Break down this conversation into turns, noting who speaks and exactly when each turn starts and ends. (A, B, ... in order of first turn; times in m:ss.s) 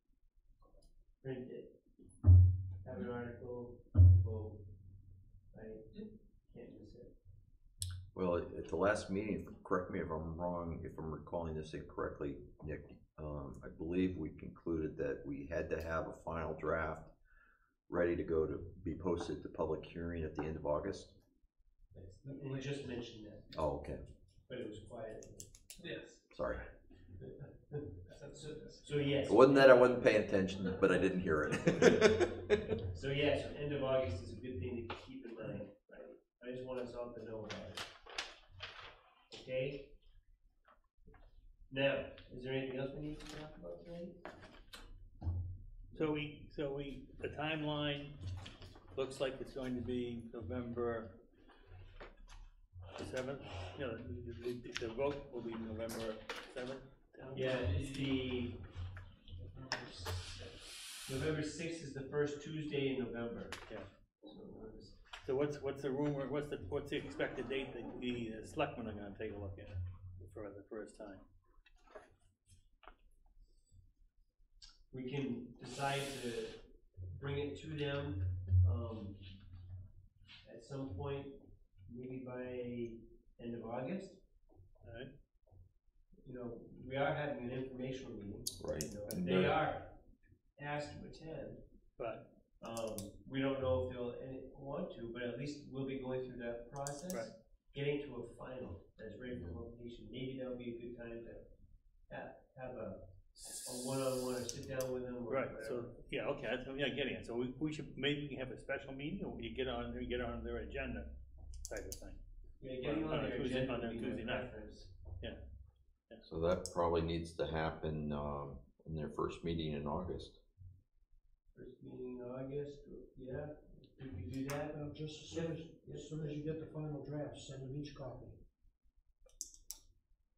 0:01.2-0:01.8 A
0:02.8-0:04.6 A
0:05.5-0:07.1 A
0:08.1-0:17.1 B
0:17.9-0:21.1 B
0:21.9-0:23.6 A
0:22.4-0:22.7 C
0:23.5-0:24.0 B
0:24.5-0:25.5 A
0:25.8-0:26.2 C
0:26.3-0:26.7 B
0:27.2-0:30.3 A
0:28.1-0:28.8 C
0:29.2-0:32.6 B
0:32.8-0:37.8 A
0:39.3-0:39.9 A
0:41.7-0:44.2 A
0:45.9-0:48.2 D
0:48.9-0:51.2 D
0:53.0-0:57.4 D
0:57.2-0:58.0 C
0:57.3-0:58.6 A
0:59.5-1:00.5 C
1:01.0-1:03.6 A
1:04.2-1:05.0 A
1:05.2-1:11.2 D
1:14.9-1:19.2 A
1:20.4-1:24.2 A
1:24.8-1:25.1 D
1:26.2-1:30.0 A
1:28.6-1:29.6 B
1:30.6-1:31.6 A
1:32.0-1:32.2 D
1:32.6-1:41.5 A
1:42.1-1:45.9 A
1:43.4-1:43.8 D
1:45.3-1:51.1 D
1:51.7-1:52.2 D
1:52.6-1:54.9 A
1:52.8-1:54.5 D
1:56.2-2:00.4 B
2:01.5-2:06.6 A
2:04.7-2:08.4 E